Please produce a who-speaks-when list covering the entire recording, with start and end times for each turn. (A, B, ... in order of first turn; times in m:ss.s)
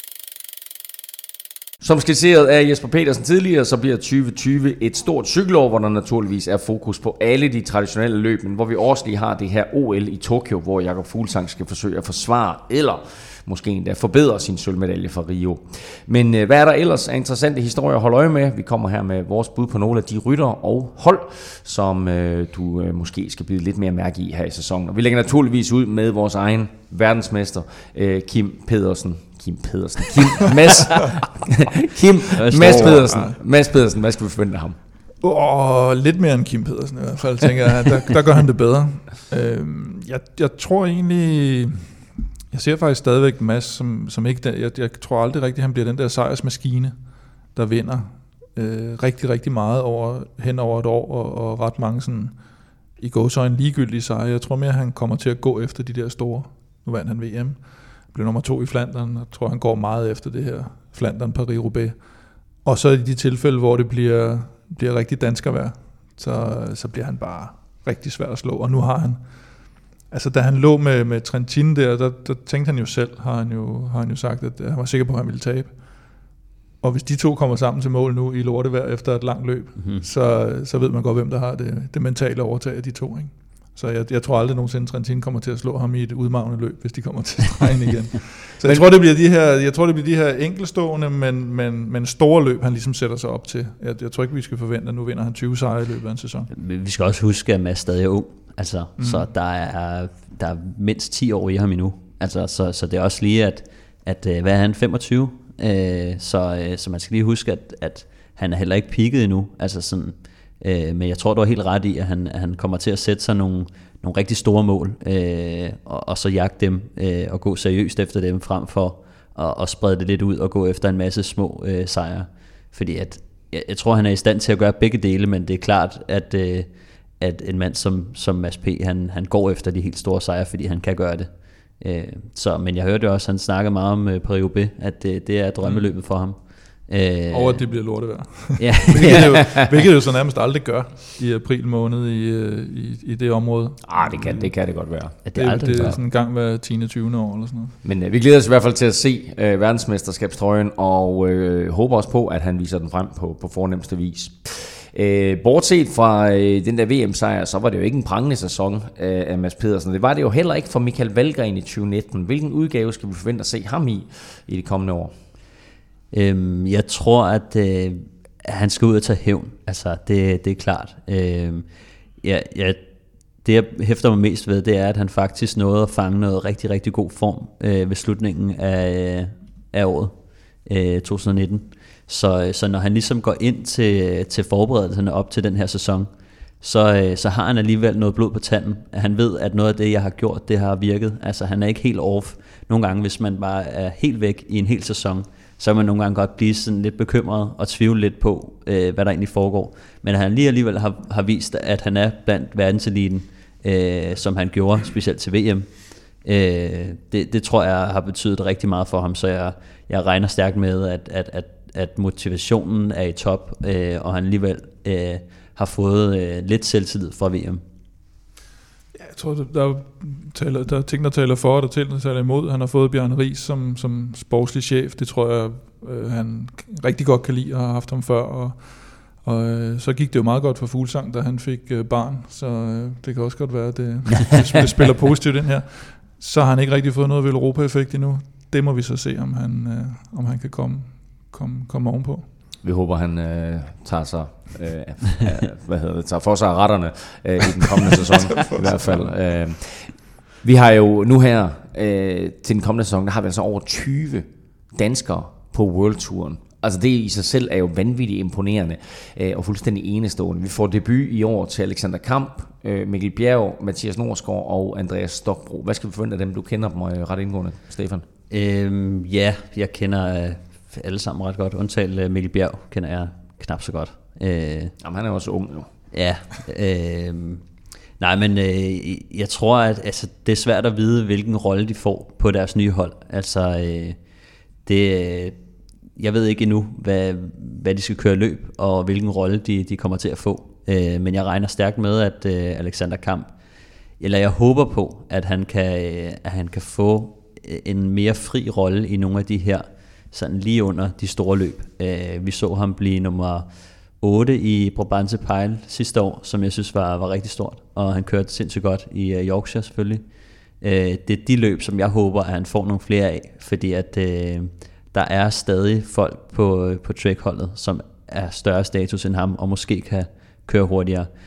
0:01.8-0:34.8 A
0:32.4-0:33.3 B
0:32.6-0:33.3 C
0:35.2-0:42.0 C
0:42.5-0:46.9 C
0:47.5-0:52.4 C
0:53.0-1:02.1 C
1:02.6-1:09.3 C
1:10.0-1:15.8 C
1:16.8-1:36.5 C
1:19.8-1:20.0 B
1:36.5-2:17.7 B
1:39.0-1:39.3 C
2:17.3-2:24.5 C
2:18.6-2:19.5 B
2:23.8-2:26.0 A
2:25.2-2:26.0 B
2:25.3-2:27.7 C
2:27.8-2:45.1 A
2:46.1-2:51.7 B
2:52.2-2:52.8 B
2:53.4-3:06.1 B
3:06.6-3:37.6 B
3:38.9-4:02.3 C
4:02.6-4:28.0 A
4:08.4-4:09.1 C
4:28.3-4:34.7 B
4:34.8-4:35.7 A
4:35.9-4:37.4 B
4:38.0-4:44.0 B
4:44.6-4:45.4 B
4:46.0-4:53.3 B
4:54.0-5:03.5 B
5:04.0-5:10.0 B
5:10.6-5:21.1 B